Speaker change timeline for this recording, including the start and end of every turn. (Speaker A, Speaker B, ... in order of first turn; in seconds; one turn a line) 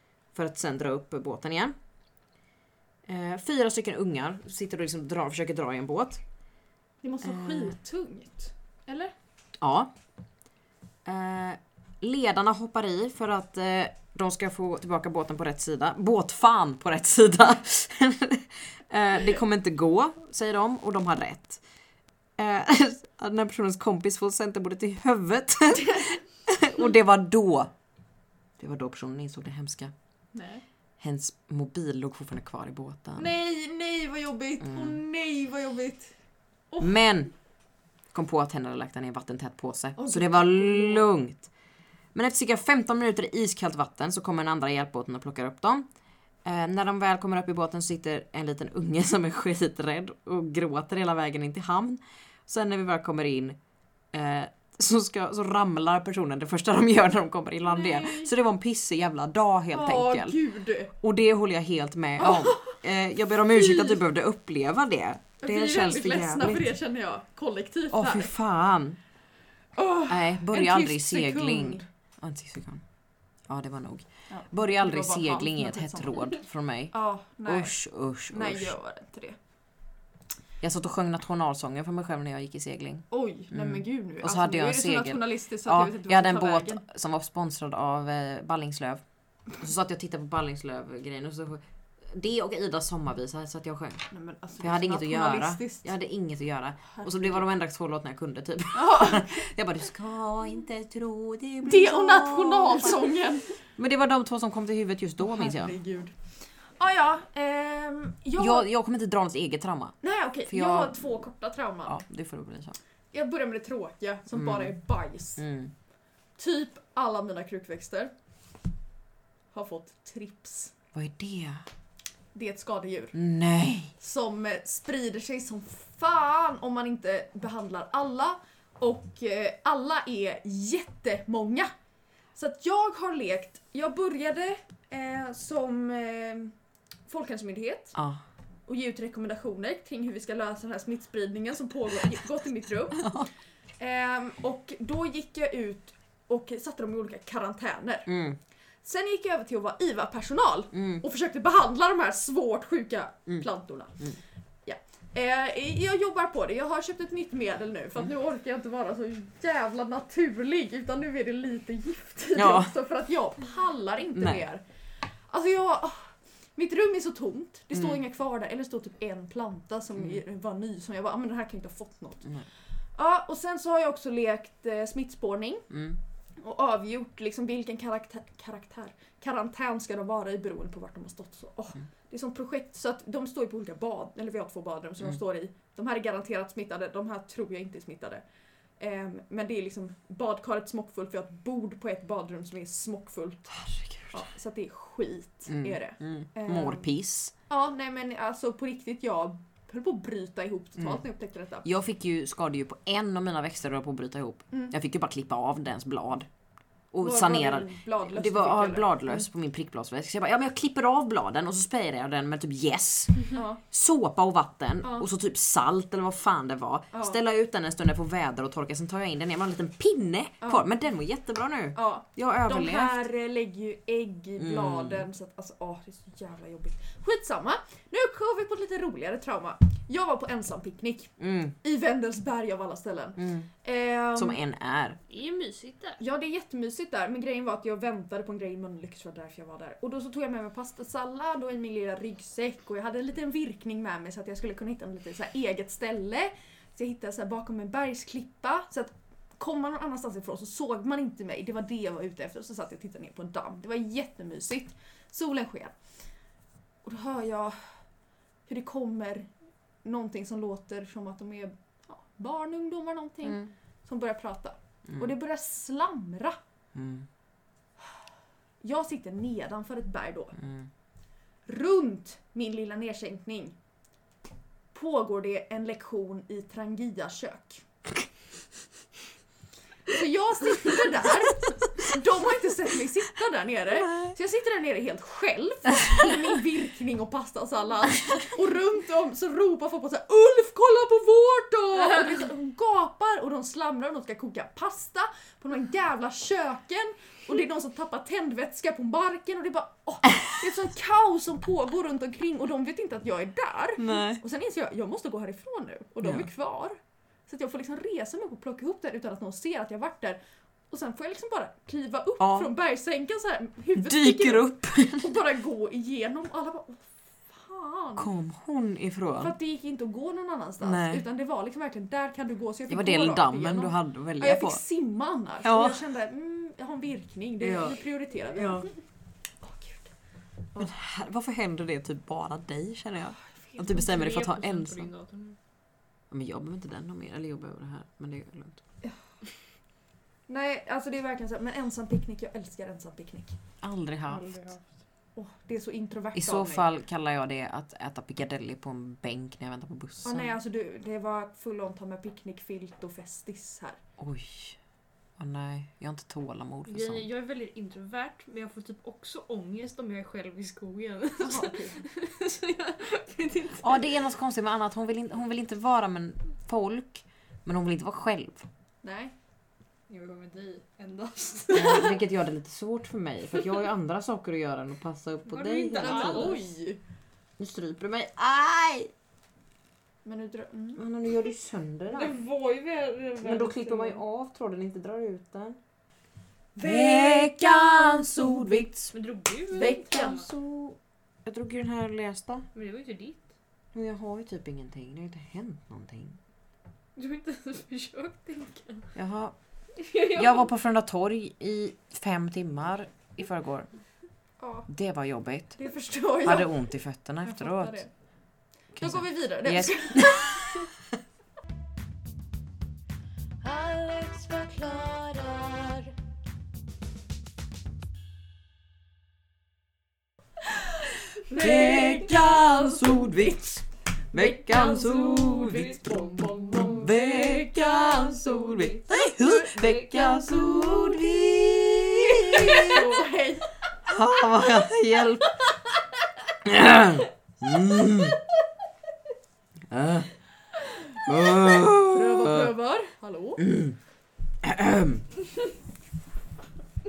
Speaker A: 0.3-1.7
Speaker A: 3.0-6.2
Speaker B: 7.0-9.1
Speaker A: 7.2-7.7
Speaker A: 9.6-9.9
Speaker A: 11.0-21.6
Speaker A: 22.4-27.7
Speaker A: 28.6-29.9
Speaker B: 30.3-30.6
Speaker A: 31.0-33.3
Speaker B: 33.2-36.1
Speaker A: 34.6-35.0
Speaker A: 36.8-37.3
Speaker A: 38.1-41.5
Speaker B: 40.0-41.1
Speaker A: 42.1-45.9
Speaker A: 46.4-53.6
Speaker A: 54.1-60.4
Speaker B: 57.6-58.3
Speaker B: 59.7-60.9
Speaker A: 61.0-66.6
Speaker B: 62.2-62.8
Speaker B: 63.5-64.0
Speaker B: 65.4-68.3
Speaker A: 67.9-69.0
Speaker B: 69.8-71.9
Speaker A: 70.1-72.8
Speaker A: 73.5-76.9
Speaker B: 74.3-76.3
Speaker B: 76.9-77.7
Speaker A: 77.5-78.7
Speaker B: 78.3-79.4
Speaker A: 80.6-89.0
Speaker B: 83.1-86.8
Speaker A: 89.6-94.1
Speaker B: 94.1-95.9
Speaker A: 94.6-103.1
Speaker B: 96.9-97.4
Speaker B: 98.7-99.4
Speaker B: 101.6-103.5
Speaker A: 103.8-105.7
Speaker B: 105.2-106.2
Speaker B: 106.8-108.7
Speaker A: 108.4-110.0
Speaker B: 110.0-112.0
Speaker A: 110.5-111.2
Speaker A: 111.8-112.7
Speaker B: 113.1-115.4
Speaker A: 114.3-114.7
Speaker A: 115.4-115.7
Speaker B: 116.4-118.1
Speaker B: 119.5-120.7
Speaker A: 120.9-121.6
Speaker B: 122.3-123.2
Speaker A: 123.1-123.9
Speaker B: 124.0-131.7
Speaker B: 132.3-136.5
Speaker B: 137.1-137.9
Speaker A: 137.9-138.2
Speaker B: 138.7-143.1
Speaker A: 142.9-143.3
Speaker B: 143.8-148.1
Speaker A: 148.1-148.4
Speaker B: 148.8-154.0
Speaker A: 150.7-151.0
Speaker B: 154.7-164.6
Speaker A: 162.3-162.7
Speaker A: 164.1-164.4
Speaker B: 165.3-172.3
Speaker A: 167.7-168.0
Speaker B: 172.9-175.7
Speaker A: 175.7-176.0
Speaker B: 176.4-188.2
Speaker B: 188.8-193.5
Speaker A: 193.5-194.2
Speaker B: 194.1-196.9
Speaker A: 195.5-197.3
Speaker B: 197.5-201.7
Speaker A: 201.6-206.3
Speaker A: 206.9-223.1
Speaker B: 207.0-209.2
Speaker B: 213.3-213.6
Speaker B: 216.9-217.2
Speaker B: 220.4-220.7
Speaker B: 221.7-234.4
Speaker A: 224.4-225.1
Speaker A: 231.2-231.5
Speaker A: 233.2-233.5
Speaker A: 234.2-235.0
Speaker C: 235.1-236.0
Speaker B: 236.0-255.7
Speaker B: 256.8-257.6
Speaker B: 258.5-259.3
Speaker B: 259.8-266.4
Speaker A: 266.7-267.1
Speaker B: 268.6-270.4
Speaker A: 270.4-270.7
Speaker B: 271.5-273.5
Speaker B: 274.7-277.6
Speaker B: 279.9-310.2
Speaker A: 303.8-304.2
Speaker B: 310.7-318.1
Speaker A: 312.2-312.5
Speaker A: 313.8-315.1
Speaker A: 318.0-319.3
Speaker B: 319.2-328.7
Speaker A: 320.6-321.0
Speaker A: 322.7-324.6
Speaker A: 325.4-325.8
Speaker A: 327.4-327.8
Speaker A: 328.3-328.7
Speaker B: 329.4-329.9
Speaker A: 330.6-334.9
Speaker C: 333.6-335.4
Speaker A: 336.1-338.6
Speaker B: 340.3-343.4
Speaker A: 343.6-344.4
Speaker C: 344.1-344.6
Speaker B: 345.1-346.7
Speaker A: 346.1-350.4
Speaker B: 350.0-353.8
Speaker A: 354.0-354.6
Speaker A: 355.2-357.1
Speaker C: 356.7-363.9
Speaker B: 361.2-361.8
Speaker A: 363.6-368.5
Speaker B: 368.8-369.1
Speaker C: 369.9-372.0
Speaker A: 371.5-376.4
Speaker C: 375.3-376.4
Speaker B: 375.8-376.8
Speaker A: 377.4-378.9
Speaker B: 380.0-380.8
Speaker A: 380.8-382.1
Speaker C: 381.9-384.0
Speaker A: 383.2-385.6
Speaker B: 386.6-388.6
Speaker A: 386.6-388.9
Speaker C: 388.9-390.3
Speaker B: 389.5-390.2
Speaker A: 389.6-392.5
Speaker C: 392.5-393.3
Speaker A: 393.7-396.2
Speaker C: 396.9-398.9
Speaker A: 398.9-399.4
Speaker C: 399.8-400.5
Speaker A: 400.1-403.7
Speaker B: 404.4-404.7
Speaker A: 404.7-405.6
Speaker B: 405.6-406.6
Speaker A: 406.2-407.8
Speaker B: 407.2-407.9
Speaker A: 408.8-410.6
Speaker B: 408.8-410.6
Speaker C: 413.4-415.9
Speaker B: 421.2-423.5
Speaker A: 421.3-432.9
Speaker C: 421.6-421.9
Speaker C: 424.1-431.1
Speaker B: 432.1-433.5
Speaker C: 432.2-432.8
Speaker A: 433.8-435.3
Speaker A: 436.4-438.2
Speaker A: 439.7-440.1
Speaker A: 441.1-442.5
Speaker B: 441.5-443.4
Speaker A: 443.4-443.8
Speaker A: 444.4-445.0